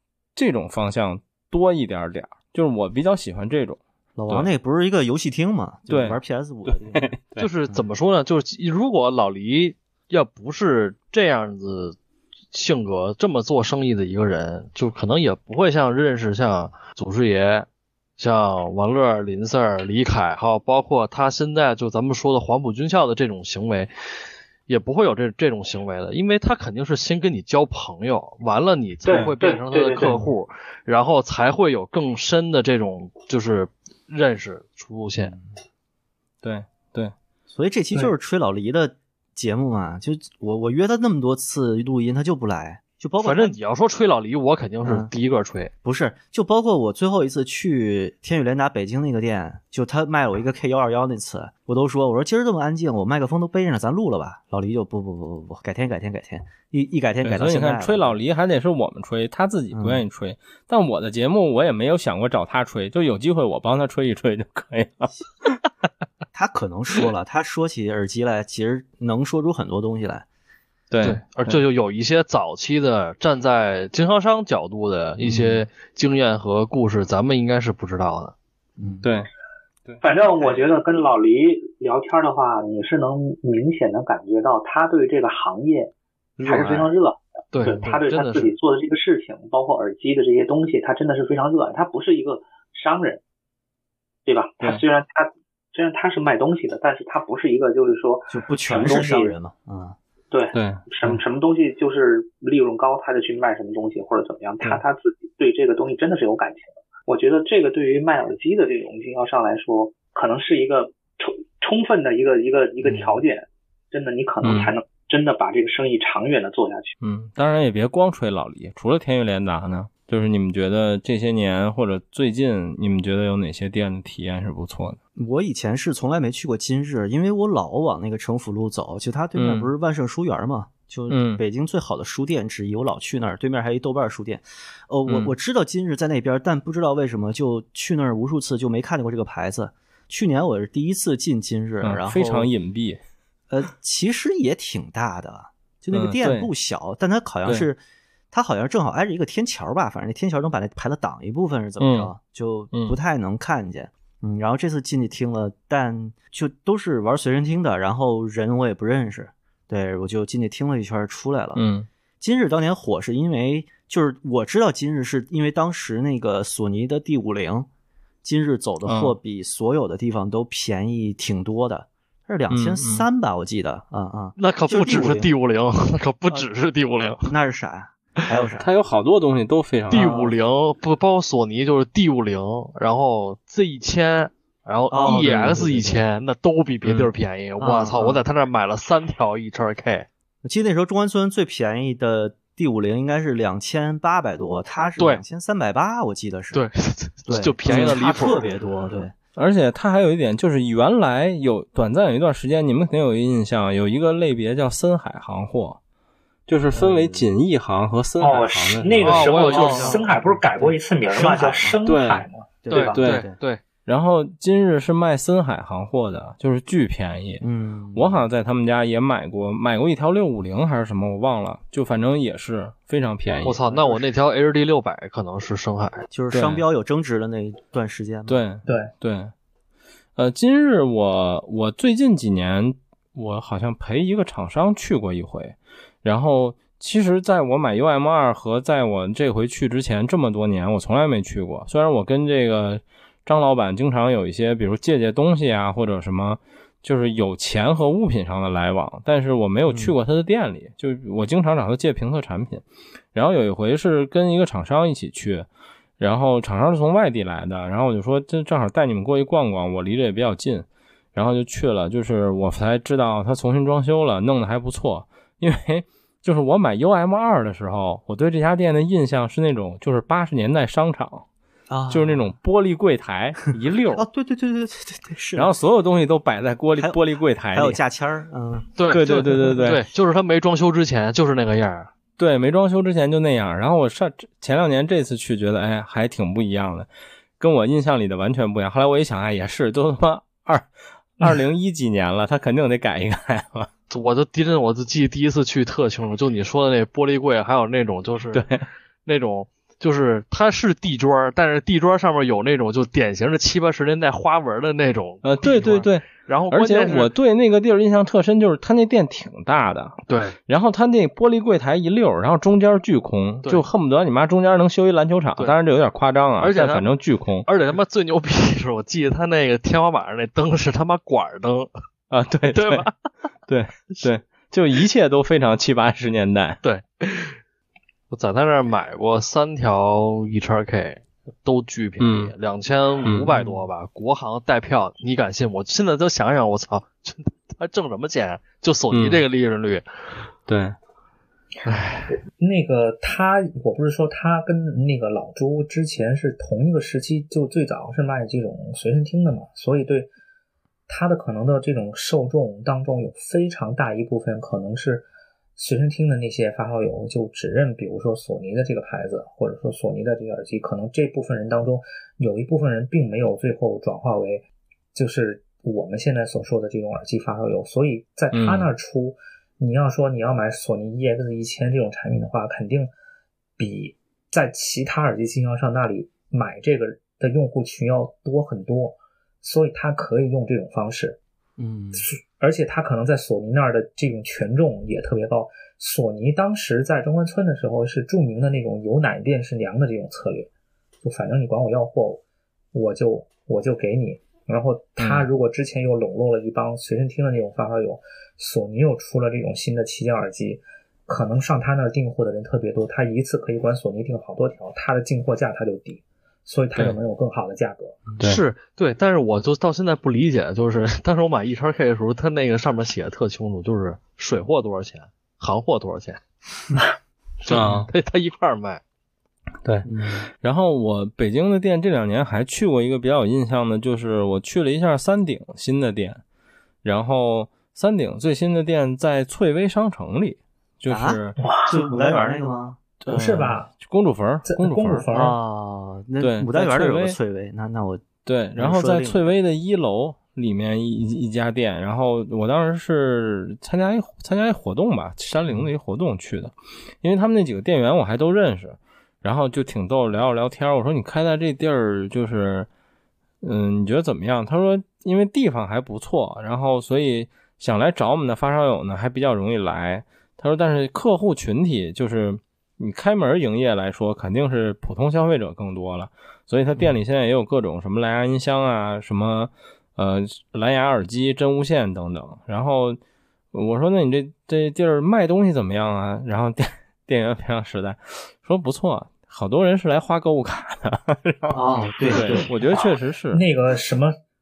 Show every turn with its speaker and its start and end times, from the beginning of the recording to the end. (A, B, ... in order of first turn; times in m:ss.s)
0:00.4-0:04.5 A
0:04.2-0:07.2 B
0:05.9-0:07.5 A
0:07.4-0:12.0 C
0:12.5-0:17.7 C
0:18.2-0:23.9 C
0:24.7-0:35.4 C
0:29.0-0:30.2 D
0:30.0-0:30.3 B
0:36.4-0:37.1 A
0:37.5-0:43.6 B
0:43.2-0:45.7 C
0:44.8-0:45.1 B
0:45.8-0:58.2 B
0:57.2-1:05.6 A
0:59.7-1:00.0 B
1:06.3-1:10.2 B
1:10.9-1:11.6 A
1:11.0-1:18.4 C
1:15.2-1:15.6 B
1:18.8-1:19.1 B
1:19.0-1:19.3 A
1:20.0-1:33.2 D
1:26.4-1:26.9 C
1:27.5-1:28.5 C
1:34.2-1:39.3 D
1:38.3-1:40.0 B
1:40.3-1:57.0 D
1:40.5-1:41.2 A
1:54.4-1:54.7 A
1:57.0-2:05.0 A
2:05.2-2:22.5 B
2:09.4-2:09.7 A
2:11.1-2:11.4 A
2:15.1-2:15.3 A
2:21.8-2:23.0 A
2:23.5-2:27.8 B
2:25.9-2:26.5 A
2:28.3-2:41.6 B
2:31.8-2:32.1 A
2:41.6-2:41.9 A
2:42.2-2:47.7 B
2:48.2-2:55.3 B
2:48.8-2:49.2 A
2:52.5-2:53.1 A
2:54.4-2:57.3 C
2:57.2-2:58.7 B
2:58.6-3:00.1 A
2:59.9-3:00.3 B
2:59.9-3:10.1 C
3:04.9-3:06.0 B
3:07.6-3:08.2 B
3:10.4-3:16.6 B
3:16.5-3:18.5 C
3:17.3-3:19.2 B
3:17.7-3:18.0 A
3:19.4-3:25.8 A
3:26.5-3:29.3 A
3:26.7-3:27.3 B
3:28.2-3:30.1 D
3:28.2-3:32.5 E
3:29.0-3:30.0 C
3:29.5-3:31.8 B
3:31.2-3:31.5 D
3:31.9-3:32.3 A
3:32.6-3:33.4 B
3:32.7-3:33.6 C
3:32.9-3:33.2 A
3:33.9-3:37.4 A
3:37.4-3:38.2 B
3:38.0-3:43.6 A
3:43.4-3:46.1 C
3:43.6-3:44.0 B
3:46.1-3:48.4 B
3:46.3-3:46.6 A
3:48.3-3:49.3 A
3:48.7-3:48.9 E
3:50.2-4:15.5 A
4:09.7-4:10.0 B
4:16.0-4:31.3 A
4:31.7-4:32.3 B
4:31.9-4:34.0 A
4:33.9-4:35.5 B
4:35.4-4:37.8 A
4:36.8-4:37.0 B
4:37.5-4:38.8 B
4:38.8-4:41.9 C
4:38.9-4:39.8 A
4:42.2-4:46.9 A
4:47.4-4:53.7 A
4:53.9-4:58.5 C
4:58.3-4:58.6 A
4:59.1-5:07.1 C
5:05.2-5:17.5 A
5:10.1-5:10.4 C
5:16.4-5:16.9 C
5:17.5-5:21.7 C
5:22.1-5:22.9 A
5:22.5-5:22.9 C
5:23.5-5:26.6 A
5:26.6-5:27.4 C
5:28.1-5:39.9 C
5:32.0-5:32.3 A
5:33.0-5:33.6 A
5:38.9-5:39.2 A
5:40.5-5:40.8 A
5:41.6-5:42.1 C
5:42.4-5:50.1 E
5:50.9-6:12.9 E
6:08.3-6:08.7 A
6:13.6-6:21.2 E
6:21.6-6:22.0 B
6:21.9-6:30.5 E
6:31.0-6:48.0 E
6:35.0-6:35.3 A
6:48.2-6:56.2 C
6:57.4-6:58.8 C
6:57.5-6:57.9 A
6:59.8-7:00.3 B
7:00.4-7:06.2 A
7:06.8-7:11.4 A
7:10.9-7:12.8 B
7:11.4-7:11.7 E
7:13.0-7:15.1 A
7:13.1-7:13.7 E
7:14.4-7:15.4 E
7:15.1-7:19.2 B
7:16.2-7:17.2 A
7:18.2-7:32.7 A
7:33.4-7:53.0 A
7:53.5-8:01.6 A
8:01.5-8:02.5 B
8:02.1-8:03.4 A
8:03.3-8:04.2 E